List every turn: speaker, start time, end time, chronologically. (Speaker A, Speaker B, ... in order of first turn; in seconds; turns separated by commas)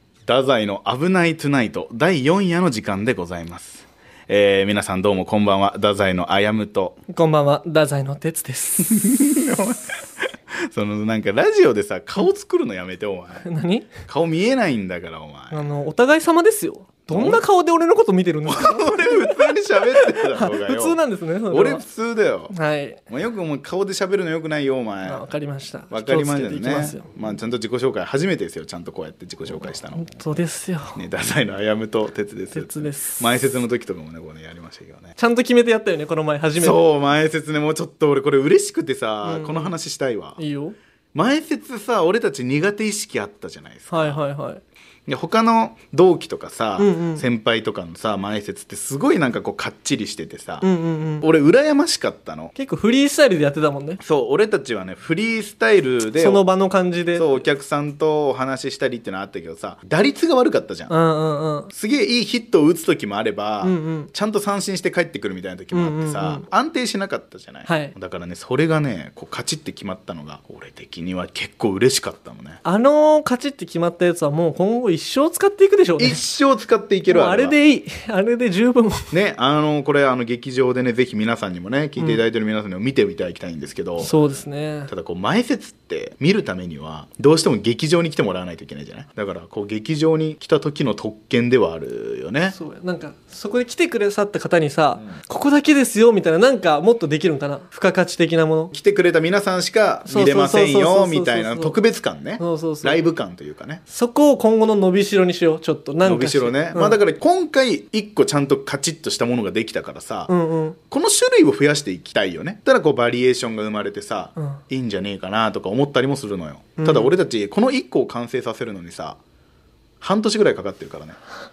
Speaker A: 0.3-7.0, Speaker B: 7.1-9.4, Speaker A: 8.9-13.5, Speaker B: 13.4-13.9, Speaker A: 14.0-15.7, Speaker B: 15.5-21.8, Speaker A: 17.1-17.4, Speaker A: 18.5-21.0, Speaker A: 21.5-22.6, Speaker B: 22.5-23.0, Speaker A: 23.1-25.3, Speaker B: 25.1-27.1, Speaker A: 25.9-30.4, Speaker B: 29.9-31.0, Speaker A: 30.9-35.1, Speaker B: 32.5-33.3, Speaker B: 35.2-36.8, Speaker A: 36.6-40.4, Speaker B: 39.2-39.8, Speaker B: 40.4-40.8, Speaker A: 41.1-44.2, Speaker B: 43.9-44.6, Speaker A: 45.1-50.7, Speaker B: 46.8-47.2, Speaker B: 50.6-51.3, Speaker A: 51.2-52.5, Speaker B: 52.5-54.0, Speaker A: 54.0-56.4, Speaker B: 56.2-57.4, Speaker A: 57.1-60.9, Speaker B: 60.9-61.7, Speaker A: 61.7-72.6, Speaker B: 63.6-64.1, Speaker B: 65.7-66.5, Speaker B: 67.7-68.0, Speaker B: 72.6-76.2, Speaker A: 76.0-77.5, Speaker B: 77.1-79.1, Speaker A: 79.1-84.2, Speaker B: 84.0-84.9, Speaker A: 84.9-92.6, Speaker B: 92.5-98.7, Speaker A: 98.7-103.8, Speaker B: 100.1-101.8, Speaker B: 102.4-103.0, Speaker B: 103.9-107.0, Speaker A: 106.0-110.3, Speaker B: 110.3-110.8, Speaker A: 110.9-119.2, Speaker B: 116.8-117.1, Speaker A: 120.0-121.2